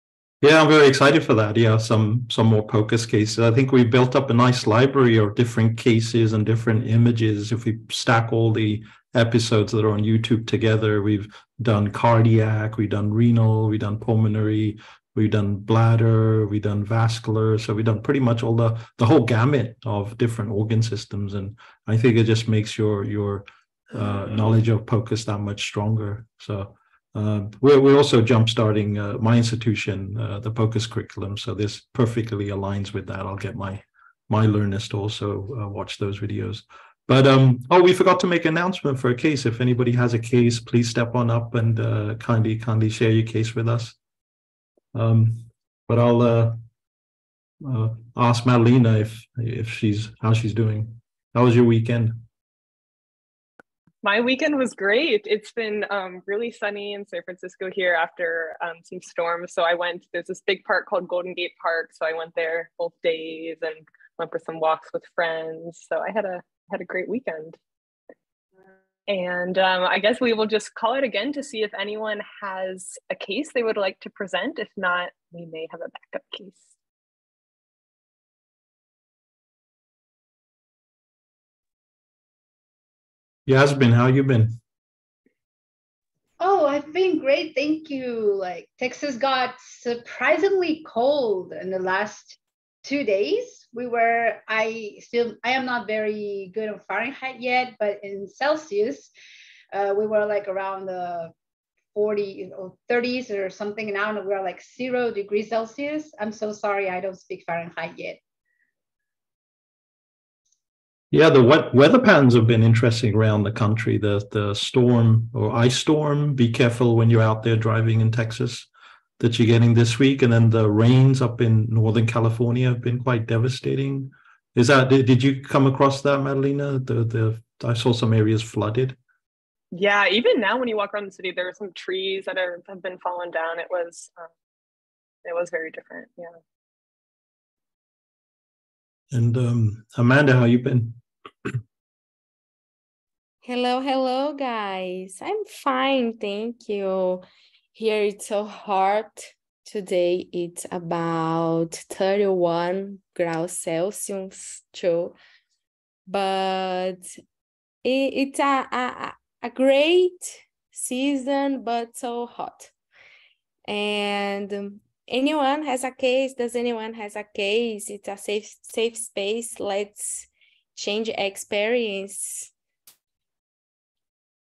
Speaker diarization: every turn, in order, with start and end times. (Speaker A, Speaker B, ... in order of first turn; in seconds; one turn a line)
Speaker A: 0.4-44.0
Speaker A: 44.9-46.6
Speaker A: 47.6-52.2
Speaker B: 54.0-67.6
Speaker B: 69.1-76.7
Speaker A: 83.5-84.6
Speaker C: 86.4-99.1
Speaker C: 99.7-101.3
Speaker C: 102.0-108.2
Speaker A: 111.1-118.7
Speaker A: 119.2-129.0
Speaker B: 129.7-134.3
Speaker B: 135.2-136.3
Speaker A: 139.1-141.6
Speaker D: 143.4-155.2
Speaker D: 156.1-157.1
Speaker D: 157.8-162.7
Speaker D: 163.7-172.5